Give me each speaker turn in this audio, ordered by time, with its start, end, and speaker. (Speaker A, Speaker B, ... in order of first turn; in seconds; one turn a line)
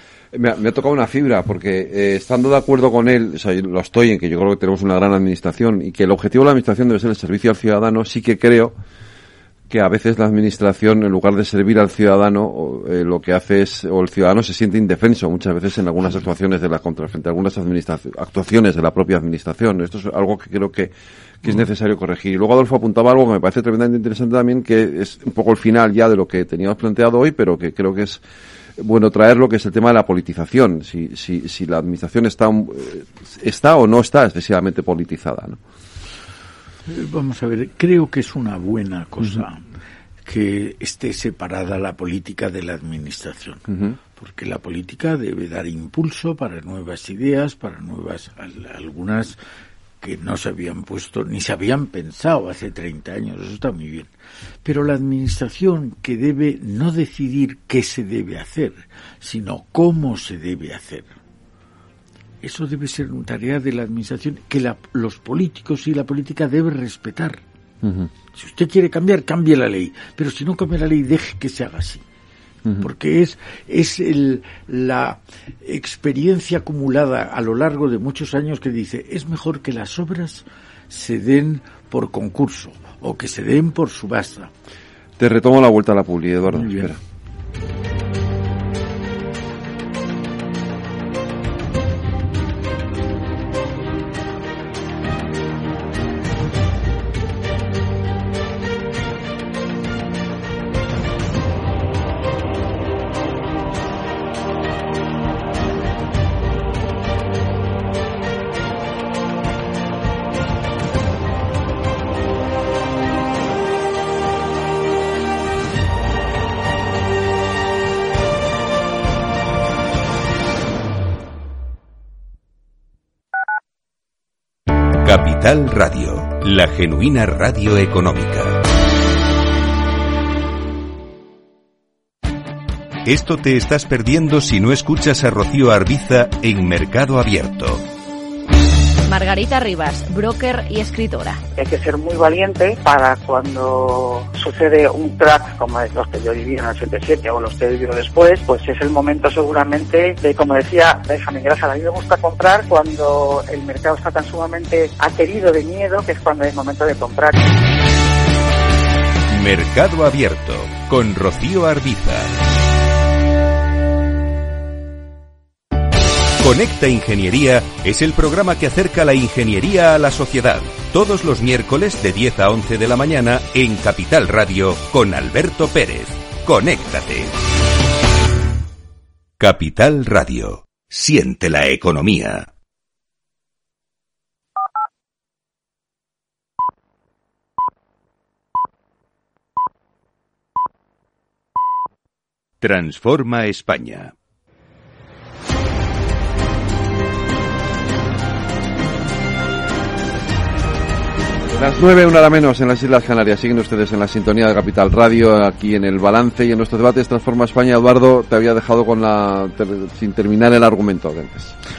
Speaker A: 0.3-8.8
Speaker A: 9.7-28.2
Speaker A: 28.8-35.6
Speaker B: 36.9-39.6
Speaker B: 40.2-49.4
Speaker A: 43.7-44.0
Speaker B: 50.0-54.1
Speaker B: 54.6-61.1
Speaker B: 62.4-67.4
Speaker A: 67.8-68.1
Speaker B: 68.3-72.0
Speaker B: 72.8-84.5
Speaker A: 85.2-87.0
Speaker B: 86.6-86.9
Speaker C: 125.0-128.6
Speaker C: 133.1-137.8
Speaker D: 139.1-141.4
Speaker E: 141.6-157.5
Speaker C: 159.3-162.5
Speaker C: 166.4-177.3
Speaker C: 179.4-182.5
Speaker C: 192.6-194.1
Speaker A: 201.5-211.6